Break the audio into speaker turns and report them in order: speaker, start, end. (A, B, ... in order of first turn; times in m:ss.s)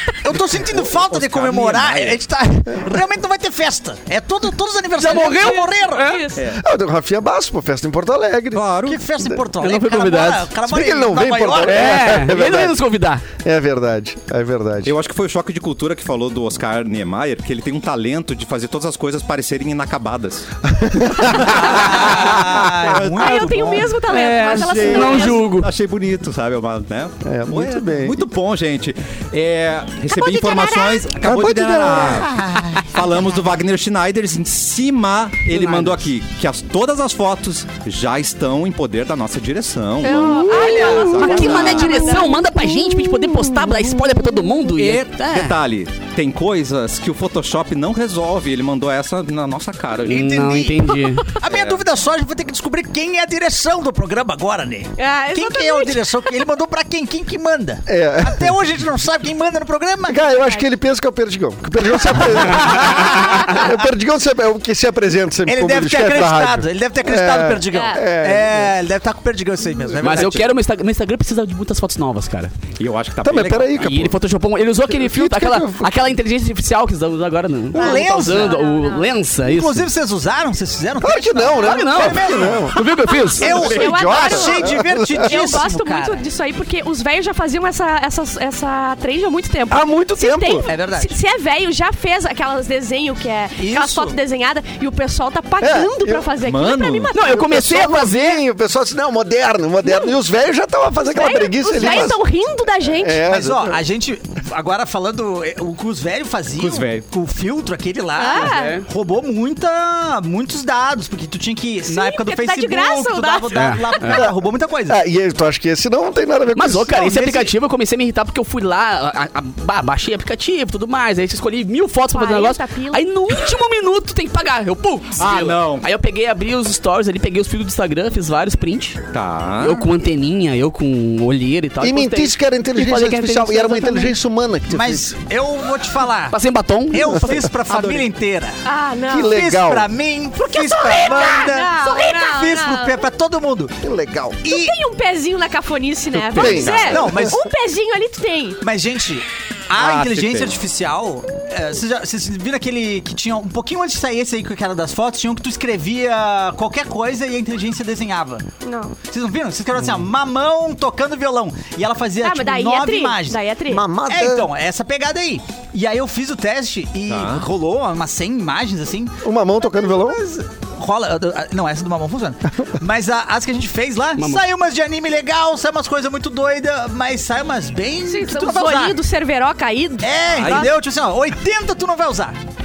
0:00.2-0:06.2 A
0:00.8-0:02.2 B
0:05.0-0:06.3 C
0:05.1-0:06.4 D
0:06.4-0:06.6 B
0:06.5-0:08.7 E
0:08.5-0:09.0 B
0:08.8-0:12.1 A
0:09.6-0:10.5 C
0:10.6-0:12.8 E
0:11.6-0:13.2 C
0:13.4-0:14.9 E
0:14.8-0:20.5 B
0:20.7-0:21.8 E
0:21.1-0:42.1 B
0:21.4-0:24.0 A
0:23.1-0:25.5 D
0:24.1-0:25.7 C
0:27.2-0:28.2 E
0:30.1-0:31.1 D
0:31.2-0:32.3 E
0:32.0-0:32.9 A
0:35.5-0:36.1 C
0:40.0-0:43.5 D
0:40.1-0:45.6 C
0:40.4-0:42.1 A
0:44.8-0:50.2 B
0:50.0-0:51.3 C
0:50.1-1:00.2 A
0:51.5-0:51.8 B
0:55.0-0:56.1 D
0:57.9-0:58.6 E
1:00.0-1:08.7 E
1:00.3-1:00.6 D
1:02.8-1:03.4 A
1:05.4-1:10.4 A
1:07.7-1:08.0 D
1:10.0-1:10.5 B
1:10.0-1:12.5 C
1:12.8-1:14.1 B
1:13.2-1:14.1 E
1:13.8-1:19.9 C
1:14.9-1:15.9 E
1:17.7-1:18.6 A
1:17.7-1:19.1 D
1:19.4-1:22.8 A
1:21.0-1:25.5 E
1:21.6-1:23.5 C
1:23.4-1:26.2 A
1:23.5-1:37.2 D
1:29.7-1:30.7 E
1:30.7-1:31.2 A
1:33.6-1:34.2 A
1:35.6-1:36.4 E
1:36.4-1:37.1 B
1:37.1-1:38.4 C
1:37.2-1:42.2 E
1:39.8-1:40.1 D
1:41.1-1:43.2 D
1:41.8-1:42.1 A
1:42.9-1:43.8 E
1:43.3-1:55.0 A
1:46.6-1:47.0 B
1:48.2-1:48.8 D
1:48.3-1:48.8 C
1:51.9-1:54.0 D
1:53.5-1:54.3 C
1:54.9-1:57.0 E
1:56.5-2:09.0 C
1:56.9-1:57.5 A
2:02.1-2:03.0 D
2:05.2-2:05.9 B
2:09.1-2:09.9 B
2:09.6-2:14.1 C
2:11.8-2:15.1 E
2:14.7-2:16.4 A
2:16.3-2:17.5 C
2:16.9-2:18.6 A
2:17.7-2:18.1 B
2:18.6-2:19.4 D
2:19.1-2:19.9 E
2:19.2-2:23.8 A
2:20.4-2:23.0 D
2:23.8-2:24.4 E
2:24.4-2:24.8 A
2:24.5-2:28.6 D
2:26.3-2:26.7 C
2:26.3-2:27.4 E
2:26.4-2:27.0 B
2:26.7-2:27.5 A
2:28.6-2:38.4 A
2:29.8-2:30.6 B
2:38.6-2:38.9 D
2:39.1-2:43.4 A
2:42.2-2:43.8 D
2:43.7-2:44.5 E
2:44.1-2:59.0 A
2:47.1-2:47.4 B
2:49.2-2:50.2 E
2:54.2-2:54.4 C
2:58.1-3:00.7 D
3:00.0-3:02.4 A
3:00.3-3:00.7 B